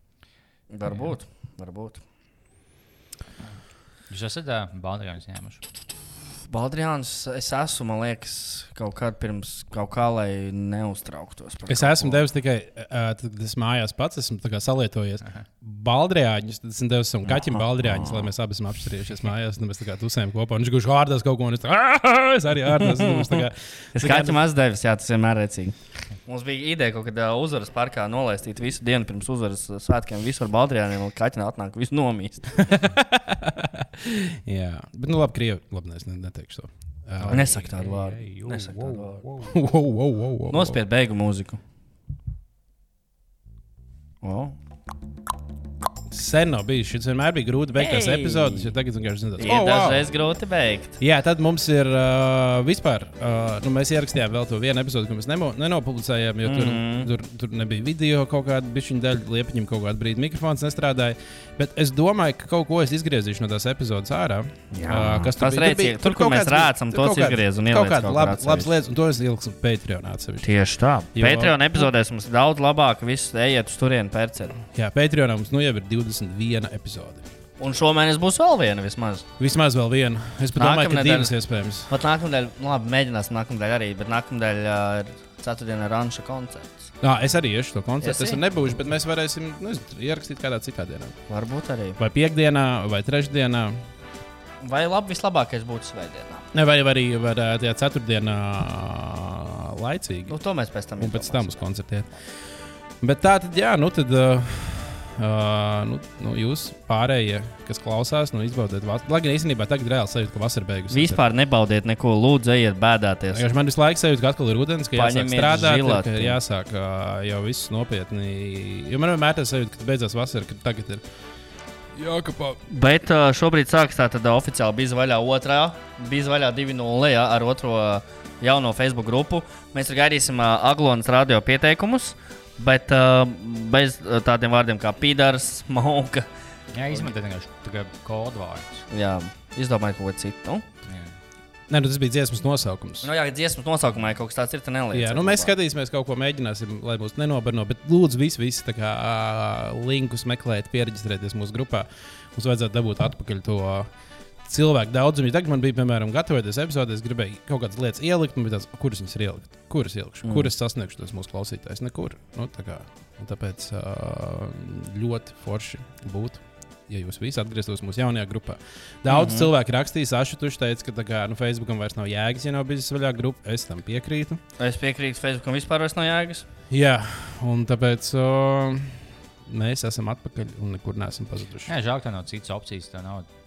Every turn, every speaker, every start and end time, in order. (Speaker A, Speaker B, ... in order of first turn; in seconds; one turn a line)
Speaker A: 0.7-2.0
Speaker B: 0.9-1.1
Speaker B: 4.1-5.6
Speaker A: 6.5-12.2
Speaker C: 11.7-24.4
Speaker A: 17.2-18.3
Speaker A: 22.8-32.6
Speaker C: 32.6-37.5
Speaker B: 37.2-39.5
Speaker A: 37.3-39.2
Speaker C: 39.4-40.8
Speaker A: 40.5-41.6
Speaker A: 44.2-44.5
Speaker C: 46.1-50.0
Speaker A: 47.8-48.7
Speaker A: 49.4-51.0
Speaker C: 51.0-70.6
Speaker A: 56.4-57.1
Speaker A: 64.7-68.7
Speaker A: 70.4-74.6
Speaker C: 71.1-71.9
Speaker C: 74.7-77.2
Speaker A: 77.6-79.3
Speaker C: 79.4-81.9
Speaker A: 80.5-81.3
Speaker A: 81.9-86.9
Speaker C: 87.0-91.2
Speaker A: 88.0-88.4
Speaker A: 91.3-92.0
Speaker C: 92.0-93.8
Speaker A: 94.6-96.5
Speaker C: 96.5-100.3
Speaker A: 100.3-101.7
Speaker C: 101.0-102.1
Speaker C: 103.0-111.2
Speaker A: 110.9-113.4
Speaker C: 113.3-121.0
Speaker A: 114.9-116.4
Speaker C: 121.9-122.6
Speaker A: 122.7-136.3
Speaker B: 136.7-138.8
Speaker A: 138.9-140.6
Speaker B: 140.9-141.1
Speaker C: 141.7-143.1
Speaker A: 143.0-145.5
Speaker C: 144.9-153.9
Speaker C: 154.4-174.4
Speaker A: 160.2-160.5
Speaker A: 169.1-169.5
Speaker A: 174.6-176.4
Speaker C: 176.7-181.7
Speaker B: 181.7-183.3